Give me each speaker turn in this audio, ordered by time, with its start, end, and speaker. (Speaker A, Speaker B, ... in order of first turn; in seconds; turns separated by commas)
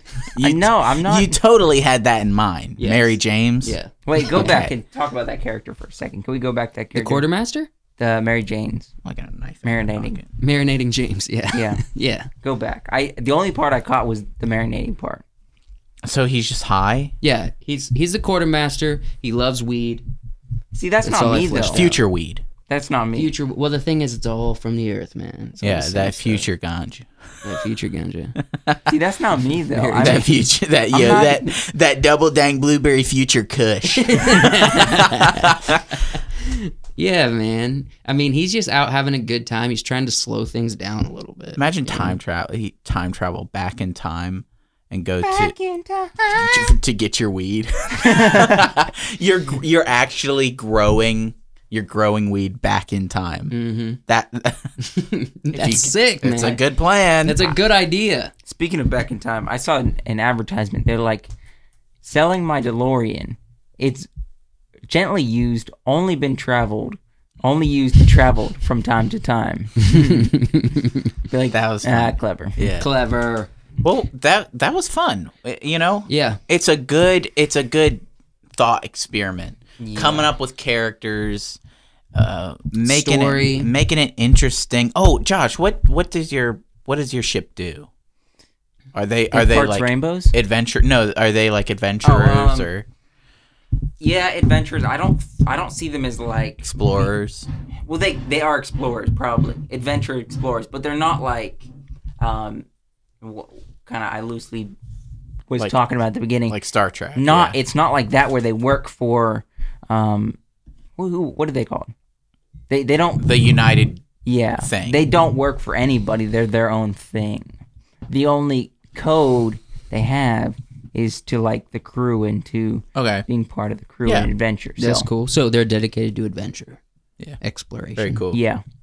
Speaker A: 0.3-3.8, Speaker B: 0.4-1.4, Speaker C: 2.8-4.7, Speaker B: 4.0-7.2, Speaker A: 4.3-4.7, Speaker C: 6.9-7.7, Speaker B: 8.0-8.9, Speaker A: 9.0-10.3, Speaker B: 9.6-10.2, Speaker C: 10.4-12.3, Speaker B: 11.5-11.8, Speaker B: 12.4-15.2, Speaker A: 16.0-17.1, Speaker C: 17.2-20.0, Speaker B: 20.7-21.8, Speaker C: 21.0-22.0, Speaker A: 21.6-22.4, Speaker B: 22.7-23.3, Speaker C: 23.1-26.5, Speaker A: 25.6-27.1, Speaker C: 27.4-28.4, Speaker B: 28.9-30.3, Speaker C: 29.7-30.2, Speaker A: 29.9-36.0, Speaker B: 30.9-31.5, Speaker C: 33.9-42.2, Speaker A: 41.5-45.5, Speaker B: 45.2-46.6, Speaker A: 46.2-53.5, Speaker B: 48.0-48.6, Speaker C: 53.5-54.0, Speaker A: 54.1-54.7, Speaker C: 54.8-56.6, Speaker A: 55.5-57.5, Speaker C: 57.2-58.3, Speaker B: 58.5-61.3, Speaker B: 62.0-64.1, Speaker B: 64.9-70.3, Speaker C: 69.8-71.0, Speaker B: 71.3-72.6, Speaker A: 71.5-72.9, Speaker C: 72.7-73.5, Speaker A: 73.8-78.0, Speaker C: 76.1-76.4, Speaker A: 78.5-81.6, Speaker B: 79.9-80.2, Speaker C: 79.9-80.2, Speaker A: 82.1-87.9, Speaker C: 82.8-83.7, Speaker A: 88.9-92.8, Speaker B: 89.3-90.3, Speaker B: 92.0-92.7, Speaker B: 94.0-96.7, Speaker A: 96.6-97.5, Speaker B: 97.8-101.7, Speaker B: 102.2-102.7, Speaker B: 103.2-104.7, Speaker B: 105.5-106.6, Speaker A: 106.5-107.6, Speaker B: 107.2-110.4, Speaker B: 111.0-111.9, Speaker B: 112.7-113.2, Speaker A: 113.2-114.0, Speaker B: 114.2-117.6, Speaker A: 114.6-115.0, Speaker B: 118.1-125.1, Speaker A: 122.9-123.2, Speaker C: 124.8-126.8, Speaker C: 127.4-128.2, Speaker A: 128.0-128.4, Speaker B: 128.3-128.6